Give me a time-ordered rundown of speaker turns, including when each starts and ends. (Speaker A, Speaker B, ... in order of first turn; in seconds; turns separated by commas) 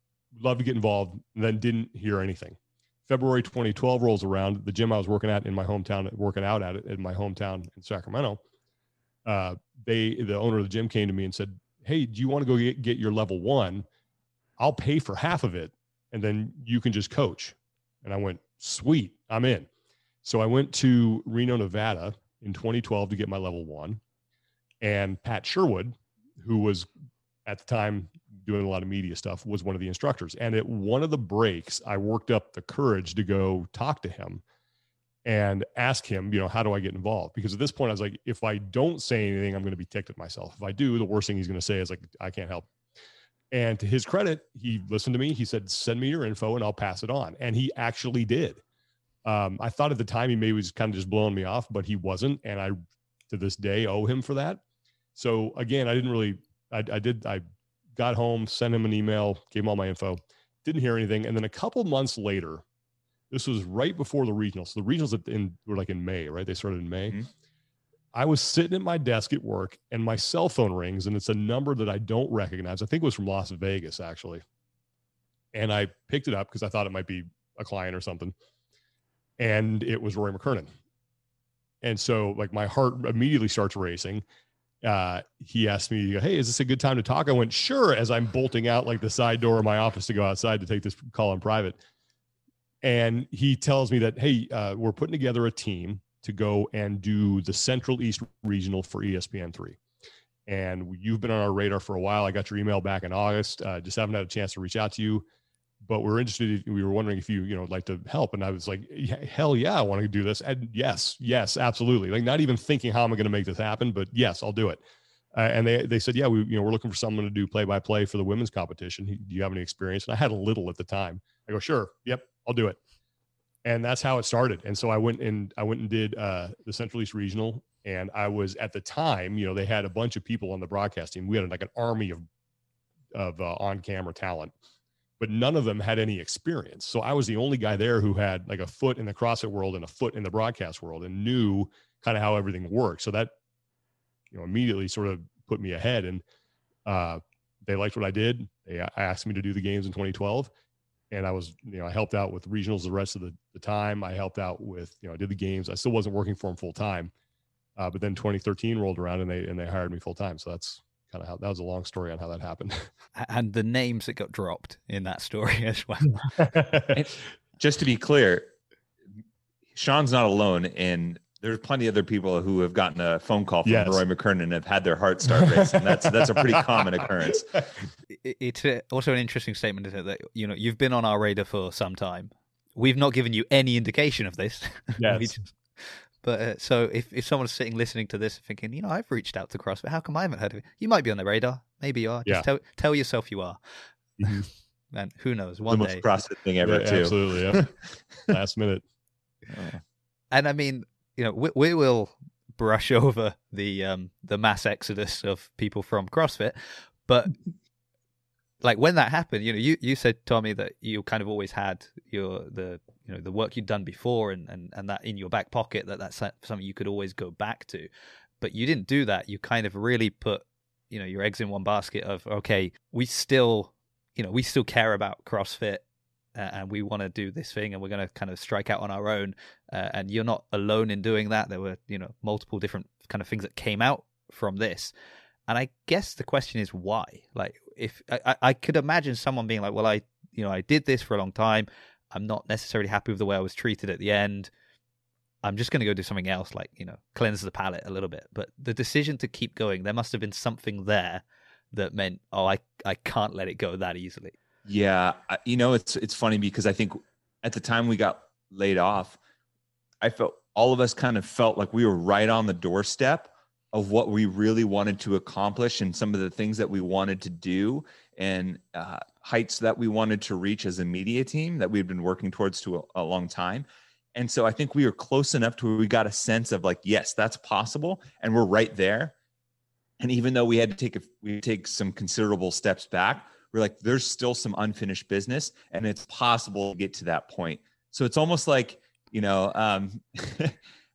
Speaker A: 0.3-8.4, Speaker A: 9.2-13.9, Speaker A: 14.6-19.7, Speaker A: 20.2-24.0, Speaker A: 24.8-26.9, Speaker A: 27.5-34.4, Speaker A: 35.2-42.7, Speaker A: 43.5-48.6, Speaker A: 49.3-52.8, Speaker A: 53.3-54.6, Speaker A: 55.2-57.4, Speaker A: 58.0-62.6, Speaker A: 63.3-67.2, Speaker A: 68.1-74.4, Speaker A: 75.5-78.3, Speaker A: 79.4-80.7, Speaker A: 81.8-84.2, Speaker A: 84.8-91.8, Speaker A: 92.8-99.8, Speaker A: 100.5-105.2, Speaker A: 105.8-114.8, Speaker A: 115.3-122.8, Speaker A: 123.7-132.2, Speaker A: 133.2-134.5, Speaker A: 135.2-143.3, Speaker A: 144.3-146.2, Speaker A: 146.9-150.5, Speaker A: 151.1-157.1, Speaker A: 157.8-162.9, Speaker B: 163.2-166.2, Speaker A: 166.4-167.0, Speaker C: 166.9-168.5, Speaker C: 169.7-177.7, Speaker A: 173.7-174.0, Speaker A: 175.3-177.1, Speaker B: 178.2-193.6, Speaker A: 185.0-185.4, Speaker A: 194.2-194.5, Speaker B: 194.2-196.0, Speaker C: 195.7-197.7, Speaker A: 196.6-197.7, Speaker A: 198.3-198.8, Speaker C: 199.5-199.8, Speaker B: 200.3-207.4, Speaker B: 208.6-217.9, Speaker B: 218.4-225.8, Speaker B: 226.3-234.9, Speaker B: 235.5-244.5, Speaker B: 245.4-254.3, Speaker C: 254.7-259.2, Speaker C: 260.0-279.1, Speaker C: 280.0-290.6